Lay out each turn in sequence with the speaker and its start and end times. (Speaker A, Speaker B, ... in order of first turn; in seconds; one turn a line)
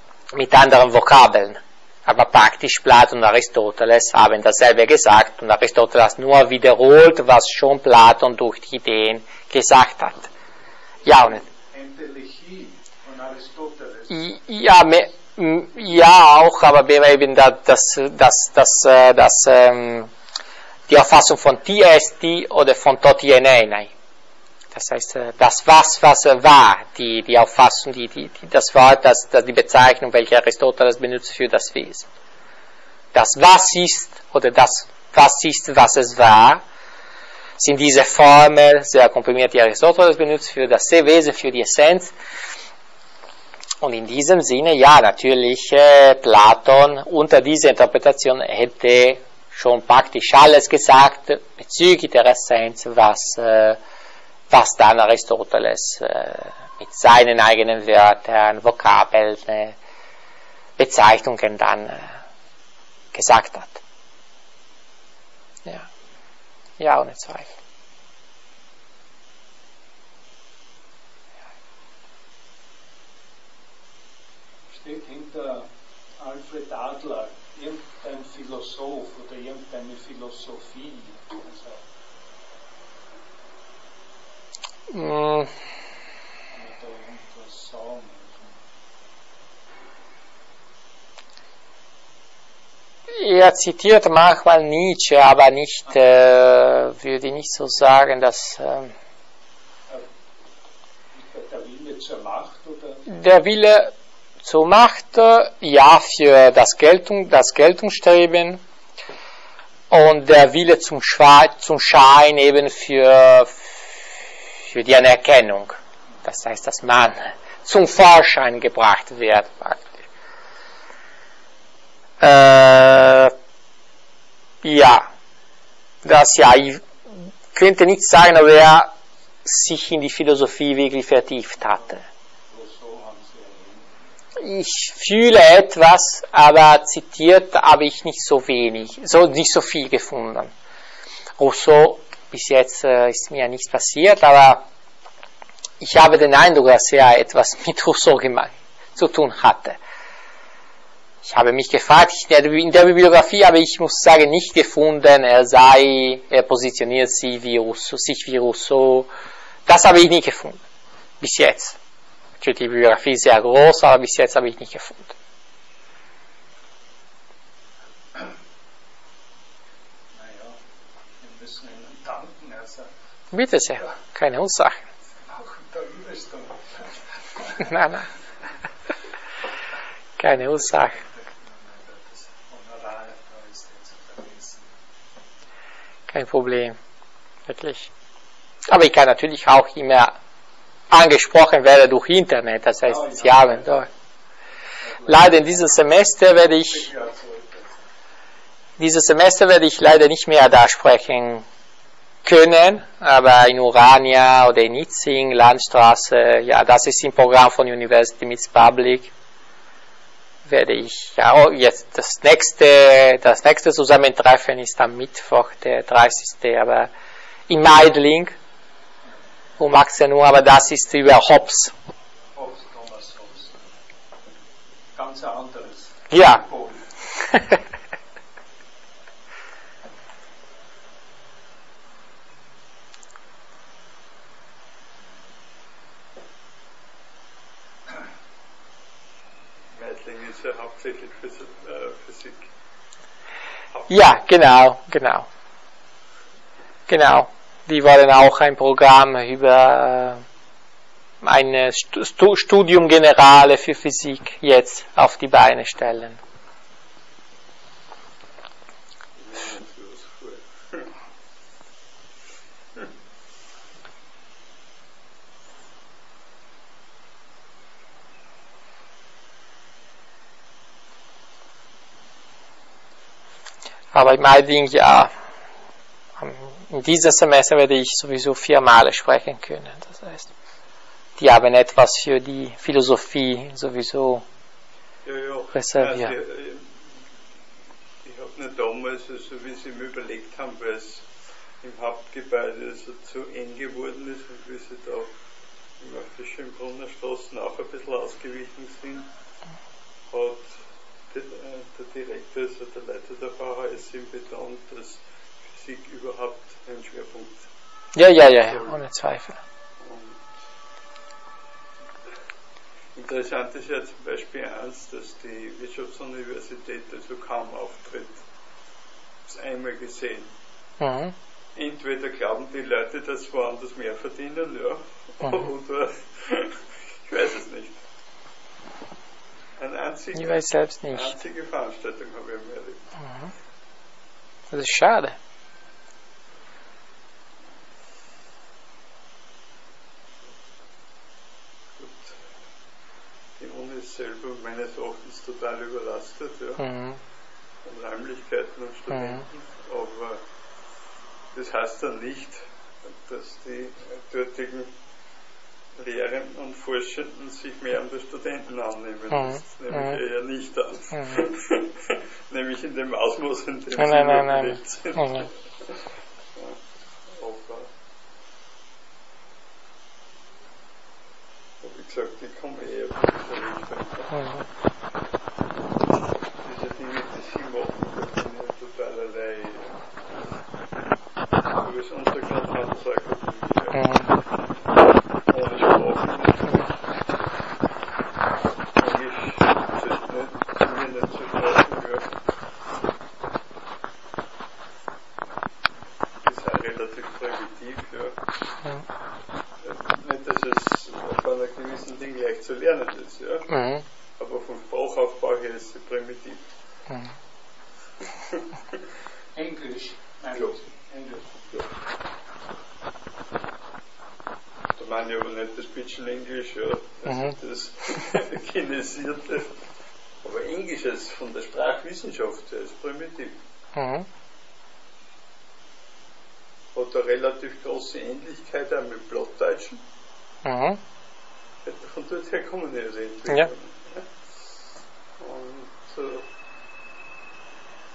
Speaker A: 0.3-10.3
Speaker A: 11.1-11.4
Speaker B: 11.2-14.2
Speaker A: 14.1-20.1
Speaker A: 20.9-23.9
Speaker A: 24.7-32.1
Speaker A: 33.1-36.6
Speaker A: 37.6-42.1
Speaker A: 43.8-53.8
Speaker A: 54.5-59.8
Speaker A: 60.8-62.2
Speaker A: 63.1-63.8
Speaker A: 66.8-67.5
Speaker B: 74.7-75.7
Speaker B: 76.2-81.8
Speaker A: 84.9-85.5
Speaker B: 86.5-88.6
Speaker A: 93.1-98.9
Speaker B: 101.2-103.1
Speaker A: 103.1-108.6
Speaker A: 109.9-120.0
Speaker A: 122.2-123.3
Speaker A: 124.6-125.1
Speaker A: 126.0-126.8
Speaker A: 127.5-128.9
Speaker A: 129.4-132.0
Speaker B: 132.5-133.9
Speaker A: 134.4-140.5
Speaker A: 141.4-144.6
Speaker A: 145.8-149.8
Speaker A: 151.2-159.1
Speaker A: 159.7-160.6
Speaker A: 161.2-161.8
Speaker A: 162.4-165.2
Speaker B: 170.1-170.6
Speaker B: 171.2-172.9
Speaker A: 173.3-174.9
Speaker B: 175.3-178.0
Speaker A: 177.6-178.1
Speaker A: 180.2-181.0
Speaker B: 180.3-184.8
Speaker A: 186.1-186.8
Speaker A: 187.5-187.9
Speaker A: 188.7-190.2
Speaker A: 190.9-193.9
Speaker B: 192.8-193.8
Speaker B: 194.8-195.8
Speaker A: 195.1-196.9
Speaker B: 196.7-197.6
Speaker A: 198.8-201.5
Speaker A: 202.2-209.1
Speaker A: 210.4-216.9
Speaker A: 217.5-218.3
Speaker A: 219.6-221.7
Speaker B: 222.3-223.6
Speaker B: 224.9-226.8
Speaker A: 226.1-226.4
Speaker A: 227.3-227.6
Speaker C: 239.7-242.5
Speaker A: 243.9-245.3
Speaker A: 246.9-250.2
Speaker A: 251.2-256.2
Speaker C: 259.2-260.9
Speaker A: 273.9-275.1
Speaker A: 276.2-280.3
Speaker A: 281.2-284.2
Speaker C: 285.1-286.9
Speaker A: 285.6-286.1
Speaker C: 288.0-291.1
Speaker C: 291.6-295.1
Speaker C: 295.8-299.1
Speaker C: 300.1-300.6
Speaker C: 301.1-307.4
Speaker A: 307.9-309.4
Speaker C: 308.5-308.8
Speaker C: 309.8-310.2
Speaker C: 312.9-318.2
Speaker C: 319.3-320.3
Speaker A: 320.8-321.1
Speaker C: 321.6-327.8
Speaker C: 329.6-332.8
Speaker A: 330.1-331.2
Speaker A: 334.5-335.2
Speaker C: 341.8-342.2
Speaker C: 343.4-346.6
Speaker A: 346.6-347.0
Speaker C: 347.6-350.2
Speaker A: 348.9-349.2
Speaker C: 351.3-354.7
Speaker C: 355.8-365.8
Speaker A: 359.1-360.0
Speaker A: 363.8-365.3
Speaker C: 366.4-367.7
Speaker C: 371.6-374.2
Speaker A: 374.1-374.5
Speaker C: 376.4-379.8
Speaker C: 381.6-384.1
Speaker A: 383.8-384.1
Speaker C: 385.3-386.7
Speaker C: 388.8-392.1
Speaker C: 396.2-398.2
Speaker C: 399.6-403.5
Speaker A: 403.5-403.9
Speaker C: 404.2-406.4
Speaker B: 409.4-411.3
Speaker C: 414.8-419.5
Speaker A: 417.1-417.4
Speaker C: 420.2-423.4
Speaker A: 423.8-424.1
Speaker C: 426.7-429.8
Speaker A: 430.4-430.8
Speaker C: 431.6-434.1
Speaker C: 435.2-436.3